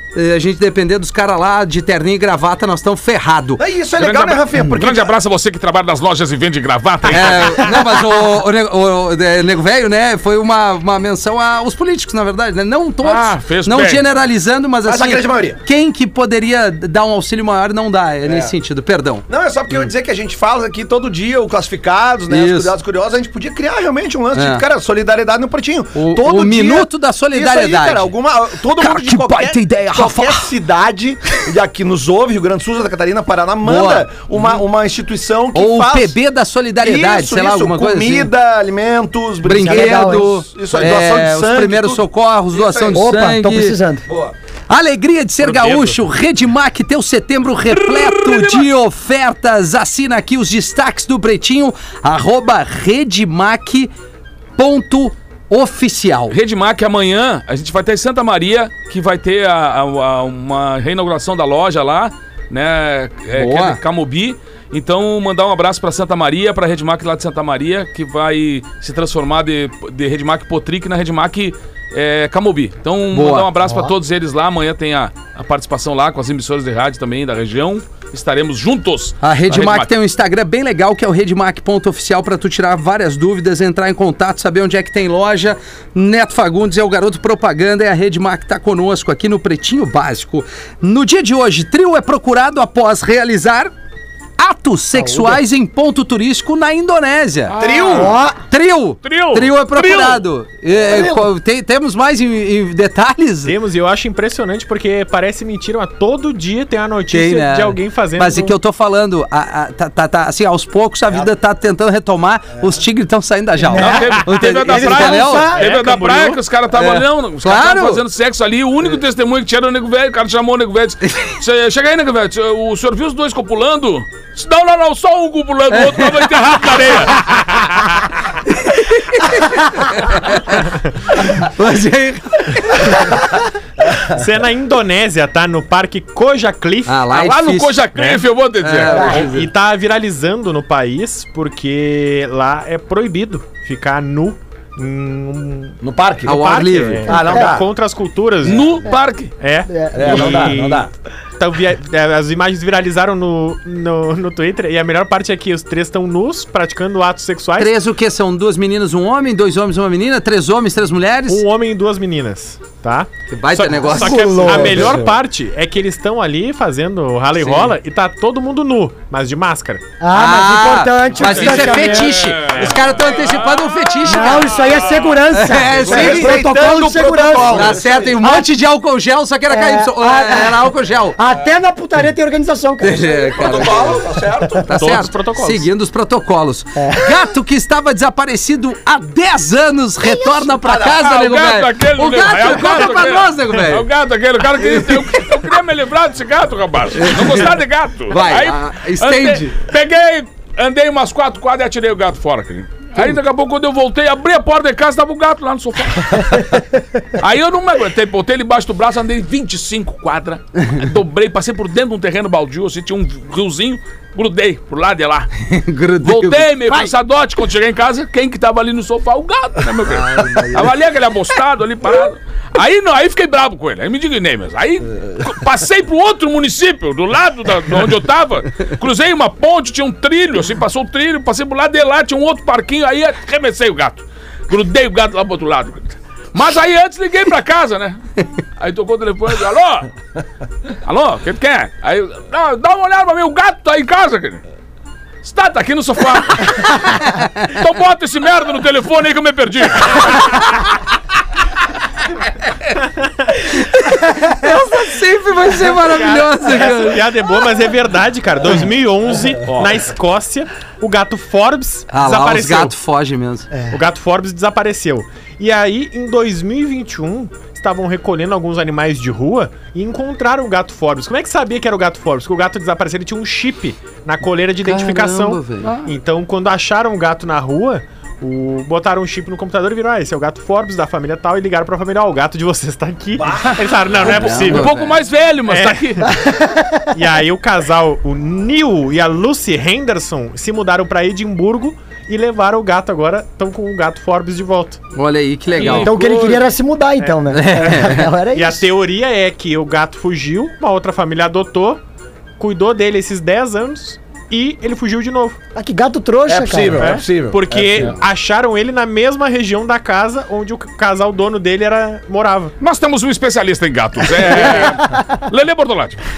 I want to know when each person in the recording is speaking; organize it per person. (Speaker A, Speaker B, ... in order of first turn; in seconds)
Speaker A: 0.1-3.6, 7.1-19.2, 22.3-22.7, 24.3-24.6, 25.9-28.1, 28.7-30.5, 33.6-34.1, 35.5-38.3, 39.4-43.8, 44.7-53.9, 54.6-56.4, 63.3-63.8, 73.1-73.9, 79.2-93.7, 94.4-97.5, 98.4-103.6, 107.1-115.5, 116.7-118.0, 121.0-121.3, 125.7-126.3, 128.5-133.2, 136.8-139.5, 146.2-147.2, 157.6-161.4, 163.3-165.0, 167.4-167.7, 170.1-174.6, 175.3-176.4, 177.5-181.2, 182.8-184.0, 184.6-193.8, 194.6-195.2, 196.9-197.6, 198.1-199.6, 215.4-216.5, 219.9-220.7, 253.4-257.1, 261.9-263.5, 274.6-275.9, 284.0-284.9, 294.9-296.3, 297.3-298.1
Speaker B: 3.6-5.1, 14.8-15.6, 18.2-18.5, 19.3-36.1, 36.8-43.1, 44.1-44.3, 97.6-98.2, 100.8-101.1, 145.8-146.5, 147.0-147.7, 149.9-150.9, 175.8-178.2, 183.3-184.7, 190.6-191.0, 283.1-283.6, 306.2-307.9
Speaker C: 4.0-7.8, 13.0-14.0, 47.8-48.6, 56.3-79.9, 97.5-98.2, 99.0-100.2, 113.8-127.6, 137.1-139.2, 148.4-149.4, 171.9-175.2, 190.8-215.3, 216.0-239.9, 240.8-244.4, 245.2-250.6, 259.4-259.8, 283.4-286.1, 295.6-296.4, 312.6-316.0
Speaker D: 39.6-40.3, 42.9-44.0, 94.9-95.4, 97.9-98.4, 113.6-115.6, 138.9-139.2, 147.1-147.6, 149.7-150.6, 163.8-165.1, 170.0-172.3, 174.0-178.5, 179.5-183.6, 184.4-184.7, 186.8-187.2, 190.0-190.5, 286.1-286.9, 295.6-298.6, 305.5-307.0
Speaker E: 45.4-45.9, 103.4-108.5, 115.5-116.4, 134.1-137.0, 138.9-148.8, 149.4-157.7, 161.3-169.8, 171.2-172.8, 184.7-185.7, 255.5-262.8, 263.7-284.7, 285.5-286.3, 286.9-294.8, 298.3-301.8, 302.4-305.4, 306.8-312.5